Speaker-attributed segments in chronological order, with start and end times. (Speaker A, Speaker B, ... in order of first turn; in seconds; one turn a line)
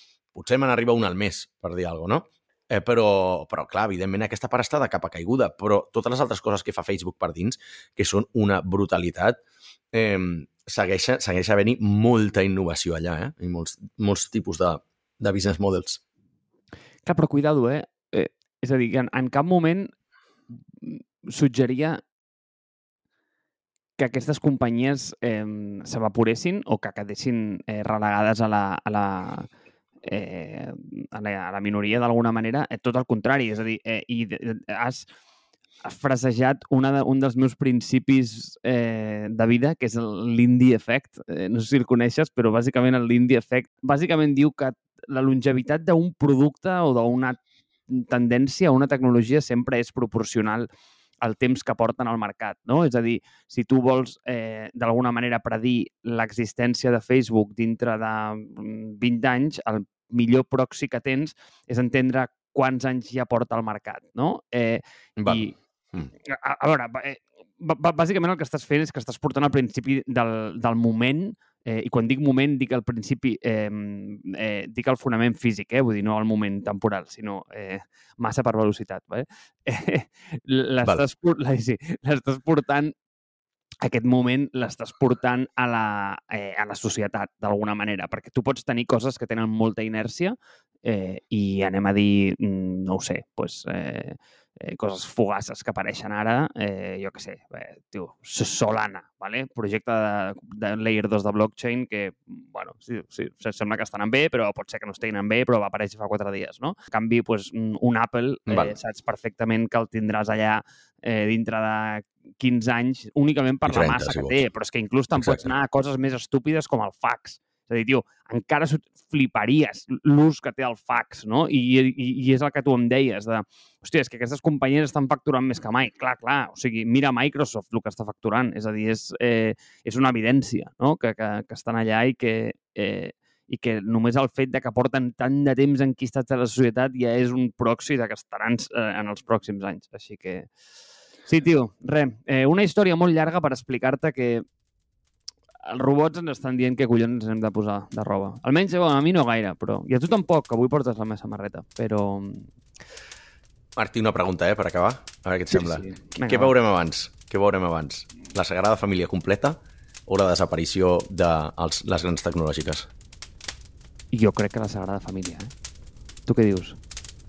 Speaker A: 0.3-9.4
Speaker A: 9.9-16.0
Speaker B: 17.1-19.9
Speaker B: 20.7-22.0
Speaker B: 24.0-29.5
Speaker B: 30.1-35.1
Speaker B: 35.8-50.7
Speaker B: 51.2-65.5
Speaker A: 65.2-66.1
Speaker B: 66.2-83.0
Speaker B: 83.8-140.5
Speaker A: 108.5-108.8
Speaker A: 113.7-114.5
Speaker A: 115.2-115.5
Speaker B: 141.3-144.4
Speaker B: 145.7-152.5
Speaker A: 153.8-162.9
Speaker B: 155.5-156.5
Speaker B: 164.1-165.5
Speaker B: 166.3-166.8